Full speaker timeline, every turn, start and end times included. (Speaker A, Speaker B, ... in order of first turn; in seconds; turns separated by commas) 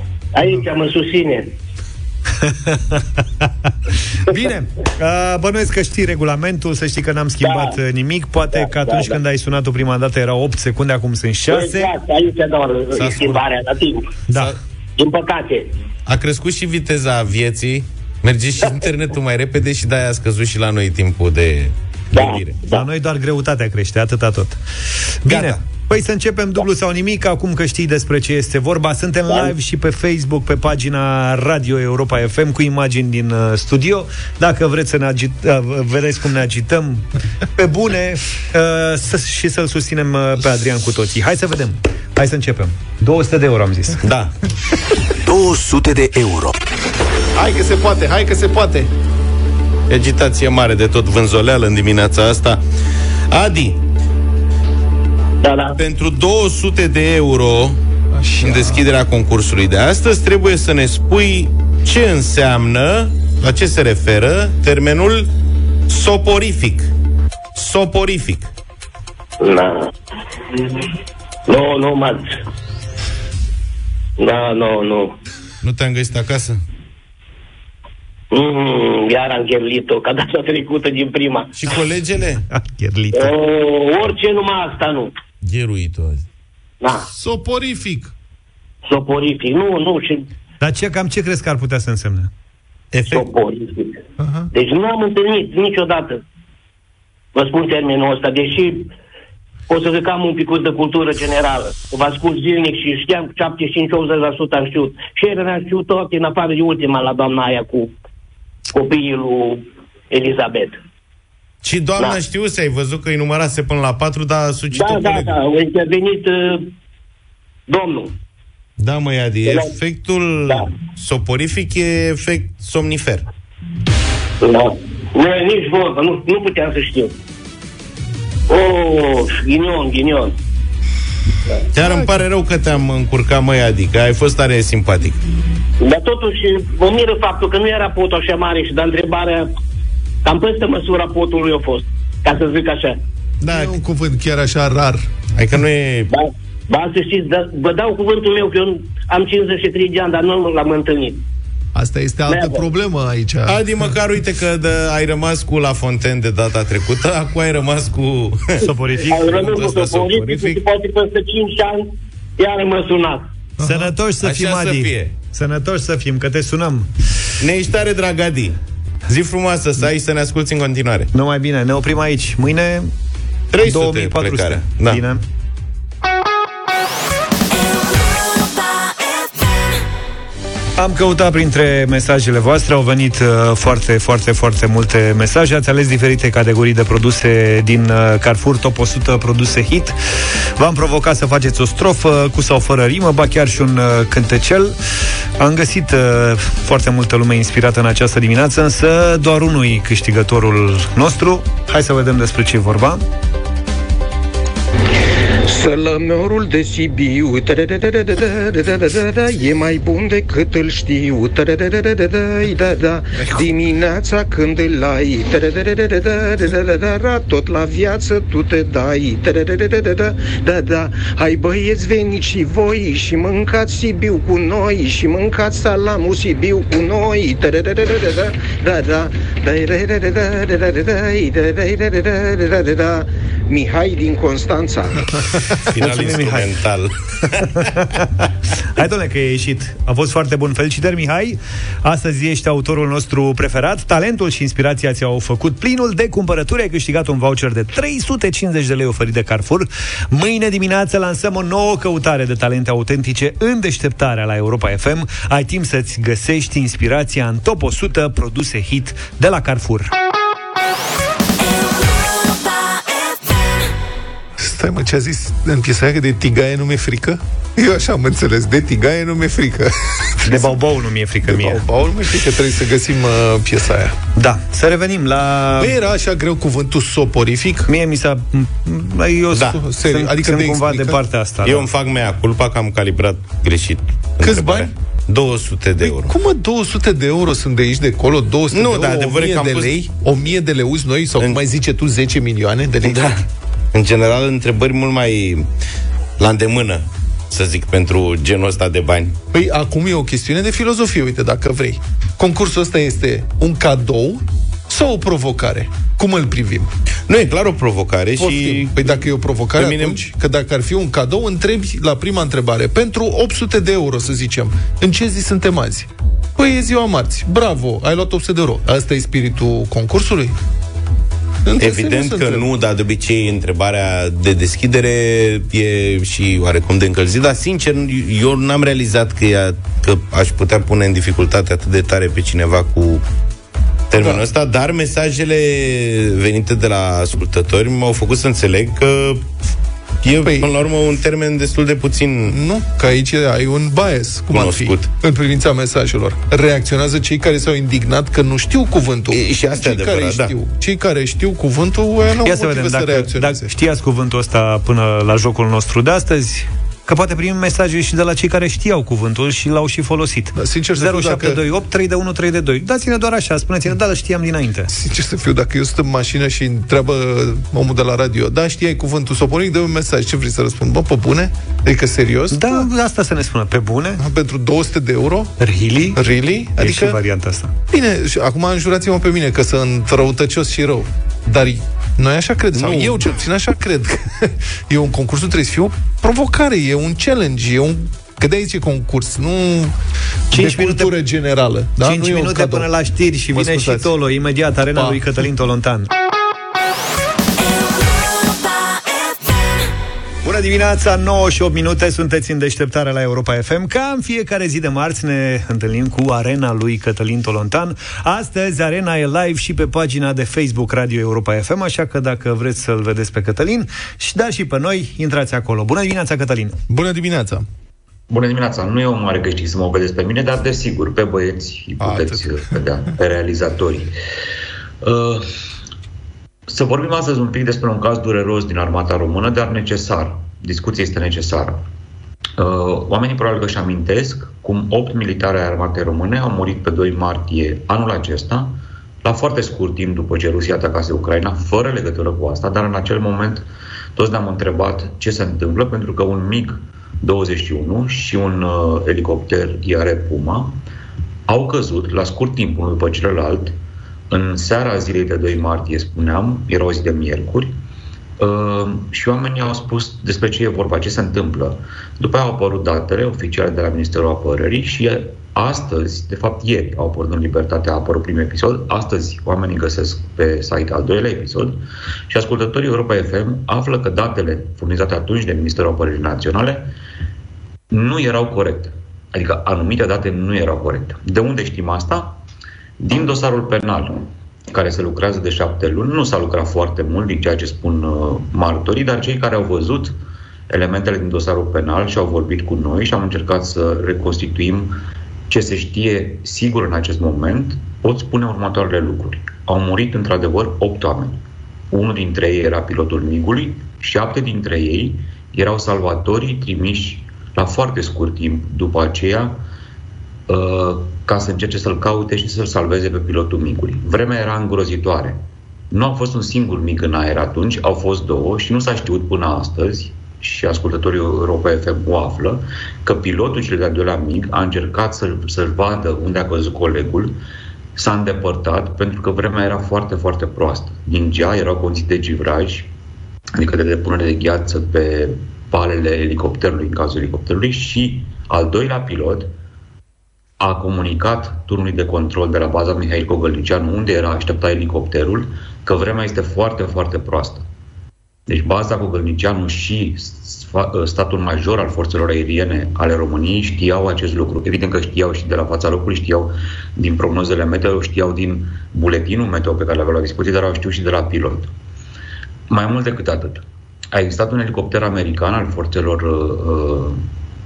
Speaker A: 0.3-1.5, Speaker B: 2.4-3.7, Speaker B: 4.3-11.9, Speaker A: 7.4-7.8, Speaker A: 8.5-9.2, Speaker A: 11.5-14.1, Speaker C: 12.9-13.4, Speaker C: 14.3-14.6, Speaker A: 15.0-15.7, Speaker C: 16.1-22.6, Speaker A: 22.1-22.9, Speaker B: 22.7-24.6, Speaker B: 25.2-44.0, Speaker C: 44.0-44.3, Speaker D: 47.4-48.9, Speaker C: 49.9-52.6, Speaker C: 53.3-53.8, Speaker A: 55.4-55.8, Speaker C: 55.8-57.8, Speaker D: 58.1-58.9, Speaker C: 58.4-65.3, Speaker C: 65.9-66.9, Speaker C: 67.6-68.5, Speaker A: 69.4-69.9, Speaker A: 71.5-72.2, Speaker A: 74.2-75.2, Speaker C: 75.6-76.6, Speaker A: 78.3-81.5, Speaker C: 81.6-82.4, Speaker B: 82.5-83.3, Speaker A: 83.1-85.1, Speaker C: 85.4-86.2, Speaker A: 86.8-87.1, Speaker D: 87.1-88.1, Speaker A: 88.9-90.2, Speaker B: 90.6-92.3, Speaker A: 93.0-94.0, Speaker D: 94.2-94.5, Speaker A: 94.5-96.2, Speaker A: 97.3-98.9, Speaker A: 99.7-107.9, Speaker A: 108.7-110.8, Speaker C: 111.6-115.4, Speaker A: 114.7-116.7, Speaker A: 117.7-118.1, Speaker C: 118.8-123.3, Speaker A: 119.5-119.7, Speaker A: 124.4-127.1, Speaker A: 128.5-130.3, Speaker C: 131.7-135.2, Speaker A: 135.8-139.5, Speaker A: 140.2-143.0, Speaker C: 143.4-143.8, Speaker D: 143.5-145.1, Speaker C: 145.4-146.1, Speaker A: 146.1-151.2, Speaker D: 151.8-153.6, Speaker A: 152.3-152.7, Speaker C: 153.5-158.7, Speaker B: 158.6-160.6, Speaker A: 159.1-163.2, Speaker C: 159.4-159.8, Speaker D: 163.6-163.9, Speaker B: 163.6-166.9, Speaker C: 164.2-165.1, Speaker C: 167.4-168.6, Speaker C: 169.1-171.1, Speaker B: 171.1-172.9, Speaker C: 173.5-175.0, Speaker B: 173.6-175.2, Speaker B: 180.8-190.0, Speaker B: 190.6-194.8, Speaker B: 195.4-203.0, Speaker E: 205.5-235.1, Speaker D: 213.2-213.5, Speaker C: 235.7-237.6, Speaker B: 235.8-236.5, Speaker B: 238.6-259.9, Speaker D: 264.4-270.6, Speaker B: 270.2-271.6, Speaker D: 271.2-273.9, Speaker B: 274.2-275.7, Speaker D: 275.6-277.7, Speaker B: 277.7-281.7, Speaker D: 279.4-281.0, Speaker C: 281.4-286.1, Speaker D: 284.2-284.7, Speaker D: 285.8-293.2, Speaker C: 288.5-289.8, Speaker C: 292.9-295.5, Speaker C: 296.2-299.2, Speaker D: 299.3-306.7, Speaker C: 307.1-309.1, Speaker D: 308.2-320.4, Speaker C: 309.6-310.0, Speaker D: 321.4-322.5, Speaker C: 321.6-333.0, Speaker C: 333.9-339.3, Speaker D: 333.9-334.2, Speaker C: 340.0-342.4, Speaker D: 340.2-340.5, Speaker D: 342.3-353.5, Speaker C: 344.3-344.9, Speaker C: 349.1-350.3, Speaker B: 352.2-364.7, Speaker D: 360.4-361.4, Speaker D: 364.7-372.7, Speaker B: 372.3-374.0, Speaker D: 374.0-375.3, Speaker B: 375.4-376.0, Speaker D: 376.0-377.0, Speaker B: 376.6-377.5, Speaker D: 377.7-389.8, Speaker C: 382.6-383.0, Speaker D: 390.3-392.7, Speaker B: 390.3-390.9, Speaker B: 391.8-395.9, Speaker D: 393.3-393.9, Speaker D: 394.7-395.1, Speaker B: 400.2-416.6, Speaker D: 416.7-417.5, Speaker F: 418.1-423.9, Speaker D: 421.8-422.5, Speaker F: 424.8-425.3, Speaker F: 426.5-431.6, Speaker F: 432.4-450.6, Speaker F: 451.3-453.6, Speaker F: 454.1-457.5, Speaker F: 458.2-476.7, Speaker F: 477.7-482.2, Speaker F: 482.8-490.0, Speaker F: 490.5-494.8, Speaker F: 495.3-501.2, Speaker F: 501.7-509.4, Speaker F: 510.3-527.1, Speaker F: 527.8-532.7, Speaker F: 533.4-539.3, Speaker F: 540.4-547.5, Speaker F: 548.3-561.5, Speaker F: 562.5-567.0